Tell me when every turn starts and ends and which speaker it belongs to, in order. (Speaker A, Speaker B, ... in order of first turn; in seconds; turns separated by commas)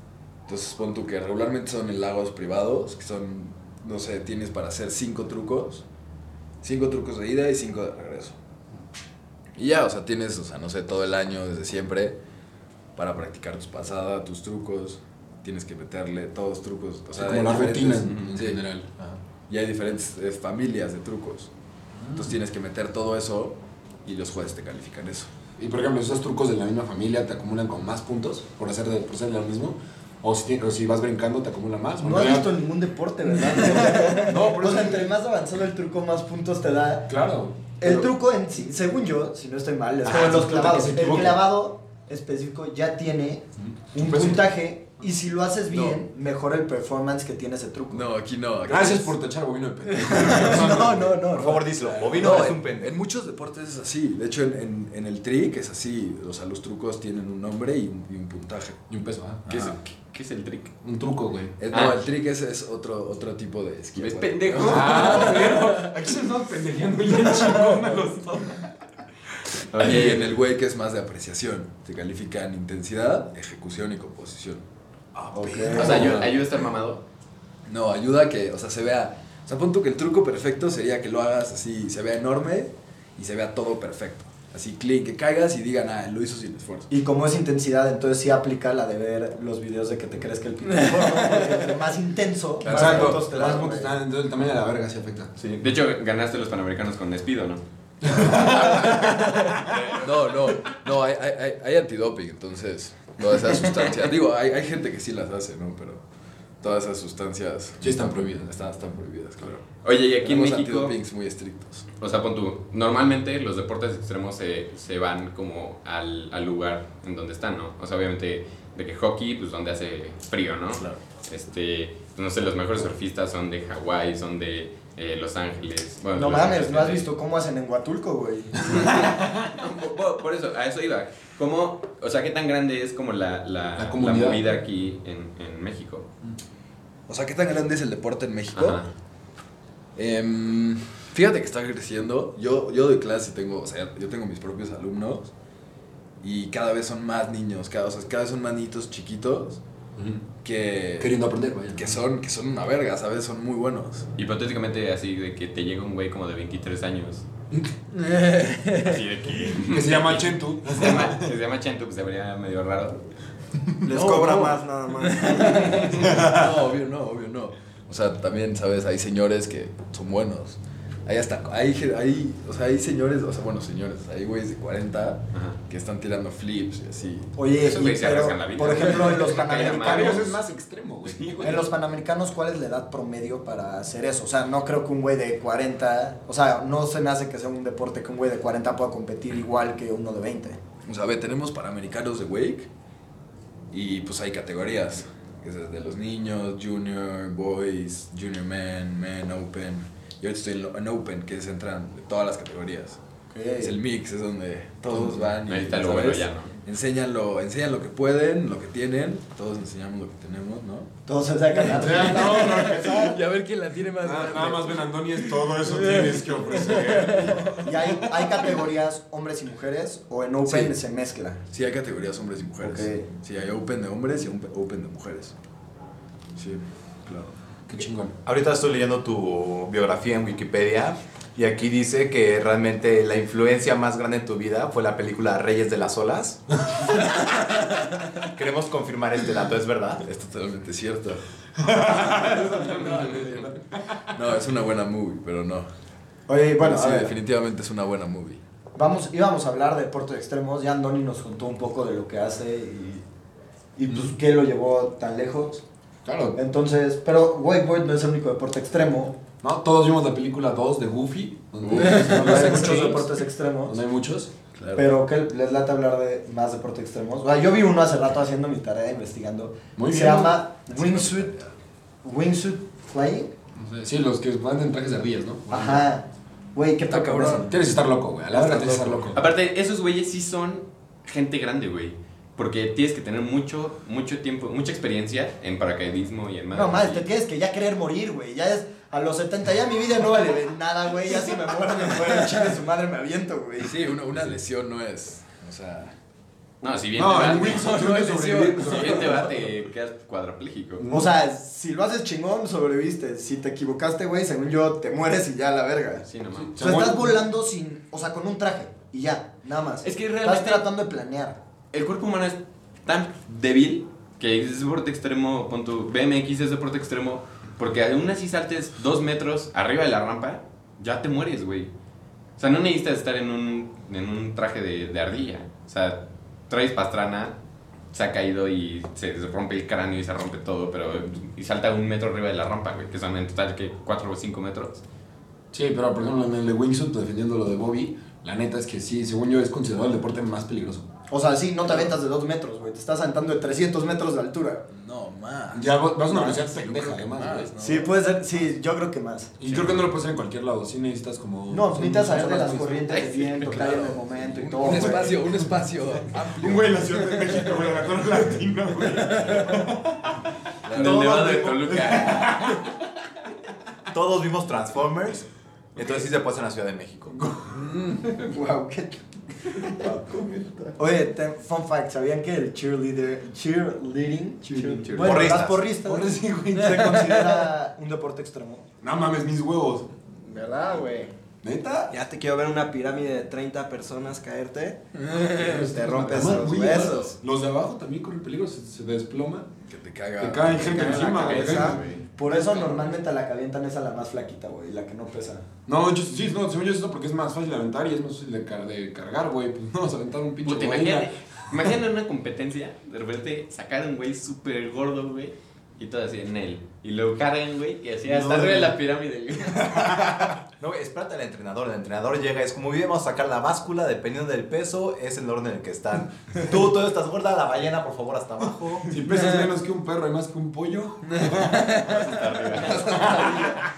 Speaker A: 0.5-5.8, Speaker A: 6.6-8.4, Speaker A: 9.6-12.2, Speaker A: 13.0-18.8, Speaker B: 17.1-19.1, Speaker A: 19.5-21.5, Speaker B: 22.0-22.3, Speaker A: 22.1-25.3, Speaker B: 25.6-32.6, Speaker C: 32.0-37.1, Speaker B: 33.5-35.2, Speaker B: 37.1-38.1, Speaker C: 37.8-48.1, Speaker B: 40.0-41.5, Speaker B: 43.6-44.5, Speaker A: 45.7-46.0, Speaker A: 47.9-49.2, Speaker B: 48.6-52.1, Speaker C: 50.1-51.6, Speaker A: 50.1-51.1, Speaker D: 51.3-52.9, Speaker A: 52.1-58.8, Speaker B: 58.9-59.4, Speaker A: 59.5-59.8, Speaker E: 59.5-60.7, Speaker B: 60.8-61.6, Speaker A: 61.6-65.9, Speaker E: 61.7-62.0, Speaker E: 64.0-65.6, Speaker B: 64.6-68.7, Speaker E: 69.7-70.3, Speaker A: 69.7-74.7, Speaker B: 75.2-76.4, Speaker C: 75.3-76.2, Speaker E: 75.7-77.0, Speaker A: 75.9-76.2, Speaker A: 77.7-86.9, Speaker C: 86.9-93.9, Speaker A: 92.6-93.3, Speaker B: 92.7-95.3, Speaker E: 95.4-97.6, Speaker B: 98.0-99.5, Speaker A: 98.2-106.0, Speaker E: 99.7-100.0, Speaker A: 106.6-111.9, Speaker B: 107.8-108.5, Speaker E: 109.8-111.0, Speaker E: 112.0-127.1, Speaker C: 126.2-129.2, Speaker E: 129.4-136.1, Speaker B: 133.8-134.4, Speaker A: 137.1-138.8, Speaker E: 138.6-138.9, Speaker A: 140.0-145.3, Speaker A: 146.2-149.6, Speaker B: 150.0-150.2, Speaker A: 150.4-151.2, Speaker B: 151.0-152.0, Speaker A: 151.7-154.1, Speaker E: 154.2-157.2, Speaker A: 157.9-159.1, Speaker E: 158.8-163.0, Speaker B: 159.7-161.3, Speaker F: 163.8-165.8, Speaker A: 163.9-164.5, Speaker C: 164.0-164.5, Speaker A: 165.0-177.3, Speaker C: 165.1-165.8, Speaker E: 175.3-175.6, Speaker C: 177.4-180.3, Speaker E: 177.6-180.4, Speaker B: 179.2-181.7, Speaker C: 181.4-190.6, Speaker A: 190.8-192.7, Speaker A: 193.7-203.0, Speaker C: 203.3-203.8, Speaker A: 203.6-210.9, Speaker B: 204.9-205.3, Speaker E: 205.5-206.5, Speaker C: 211.1-213.2, Speaker A: 211.6-218.0, Speaker B: 211.6-213.2, Speaker B: 214.0-217.6, Speaker C: 217.6-221.4, Speaker A: 220.4-220.8, Speaker A: 221.5-225.3, Speaker C: 222.6-223.1, Speaker A: 226.4-227.3, Speaker B: 227.7-228.2, Speaker D: 228.2-236.4, Speaker D: 238.3-240.0, Speaker A: 240.0-243.6, Speaker B: 241.6-244.0, Speaker A: 244.1-245.7, Speaker C: 246.3-247.1, Speaker A: 246.6-248.4, Speaker C: 248.8-253.1, Speaker C: 253.8-255.6, Speaker B: 256.1-256.4, Speaker C: 256.4-259.2, Speaker B: 259.4-264.3, Speaker A: 261.7-262.0, Speaker C: 261.7-263.8, Speaker A: 264.6-264.9, Speaker C: 264.8-271.3, Speaker B: 269.8-270.4, Speaker A: 270.7-271.6, Speaker C: 272.0-273.3, Speaker B: 273.6-275.9, Speaker C: 275.5-277.6, Speaker A: 276.9-277.5, Speaker B: 277.5-279.2, Speaker C: 278.3-279.2, Speaker E: 279.1-287.1, Speaker C: 286.5-293.8, Speaker A: 292.2-292.5, Speaker A: 293.6-296.0, Speaker E: 296.6-297.8, Speaker B: 296.9-299.3, Speaker A: 297.2-299.3, Speaker E: 298.6-300.9, Speaker B: 300.8-301.1, Speaker C: 300.9-306.1, Speaker E: 306.0-306.7, Speaker B: 306.4-307.2, Speaker C: 306.6-311.4, Speaker E: 309.8-310.7, Speaker E: 311.7-321.7, Speaker E: 322.4-327.4, Speaker E: 327.9-334.8, Speaker B: 335.5-340.9, Speaker C: 341.1-344.6, Speaker A: 344.7-347.9, Speaker B: 345.5-347.5, Speaker C: 347.6-349.3, Speaker B: 349.4-352.9, Speaker C: 351.5-355.2, Speaker E: 352.9-353.5, Speaker A: 353.4-357.5, Speaker B: 354.6-355.2, Speaker B: 356.4-360.2, Speaker A: 359.1-359.6, Speaker A: 360.6-361.4, Speaker E: 360.7-362.4, Speaker D: 360.8-361.7, Speaker B: 361.7-362.6, Speaker D: 363.9-365.2, Speaker D: 365.8-367.3, Speaker A: 367.5-368.1, Speaker C: 368.0-370.0, Speaker A: 369.8-370.7, Speaker C: 370.8-378.6, Speaker B: 374.4-374.9, Speaker E: 374.8-375.3, Speaker D: 374.9-375.7, Speaker B: 375.8-377.5, Speaker B: 378.8-379.9, Speaker F: 380.3-380.9, Speaker B: 381.4-381.9, Speaker F: 381.9-384.8, Speaker A: 385.0-385.7, Speaker B: 385.3-389.5, Speaker F: 385.4-387.1, Speaker A: 386.6-387.1, Speaker A: 389.7-391.4, Speaker B: 390.2-391.8, Speaker C: 390.8-391.1, Speaker E: 390.8-392.9, Speaker F: 391.2-391.8, Speaker C: 392.2-395.4, Speaker B: 395.7-401.7, Speaker E: 400.4-410.0, Speaker D: 408.1-408.8, Speaker D: 410.0-418.9, Speaker B: 418.9-423.6, Speaker A: 421.2-422.0, Speaker E: 422.0-423.2, Speaker C: 422.7-423.6, Speaker A: 423.0-423.4